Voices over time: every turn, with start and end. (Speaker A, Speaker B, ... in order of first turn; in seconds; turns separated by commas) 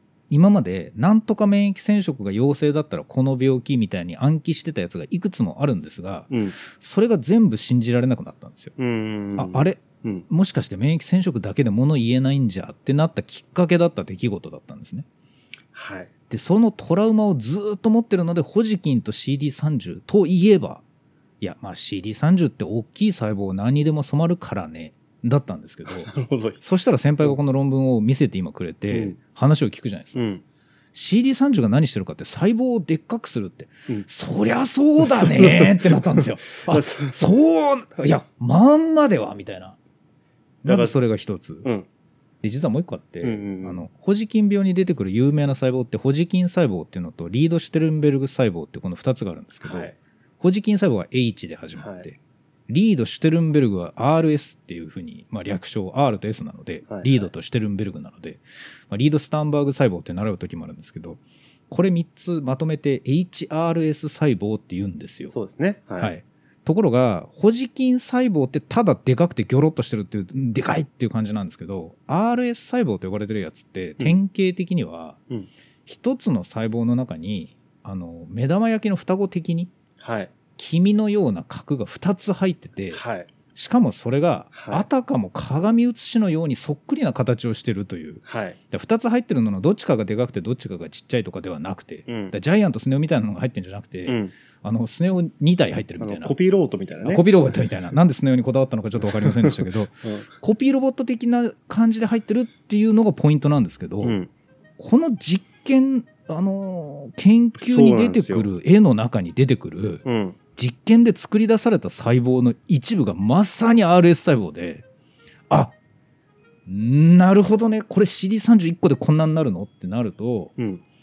Speaker A: 0.3-8.7, Speaker B: 6.3-6.6, Speaker B: 8.8-10.2, Speaker A: 9.3-15.1, Speaker B: 15.7-16.1, Speaker A: 16.3-20.8, Speaker A: 21.4-30.2, Speaker B: 26.0-26.6, Speaker B: 28.9-29.1, Speaker B: 30.1-30.4, Speaker A: 30.9-39.8, Speaker B: 35.0-37.2, Speaker A: 40.6-41.6, Speaker B: 40.6-40.9, Speaker A: 42.4-65.3, Speaker B: 43.2-43.8, Speaker B: 49.6-49.9, Speaker B: 51.8-52.1, Speaker B: 56.9-57.3, Speaker B: 65.3-66.1, Speaker A: 66.0-75.2, Speaker A: 75.8-79.7, Speaker B: 80.0-80.3, Speaker A: 80.6-83.0, Speaker B: 82.9-83.3, Speaker A: 83.5-96.3, Speaker B: 84.5-84.8, Speaker B: 88.2-88.6, Speaker B: 92.1-92.3, Speaker B: 94.1-94.3, Speaker B: 96.0-97.2, Speaker A: 97.0-104.2, Speaker B: 99.0-100.3, Speaker B: 104.0-104.3, Speaker A: 104.8-110.0, Speaker B: 107.6-108.5, Speaker B: 110.0-110.3, Speaker A: 110.5-114.8, Speaker A: 115.5-115.7, Speaker A: 116.7-120.5, Speaker B: 120.6-120.8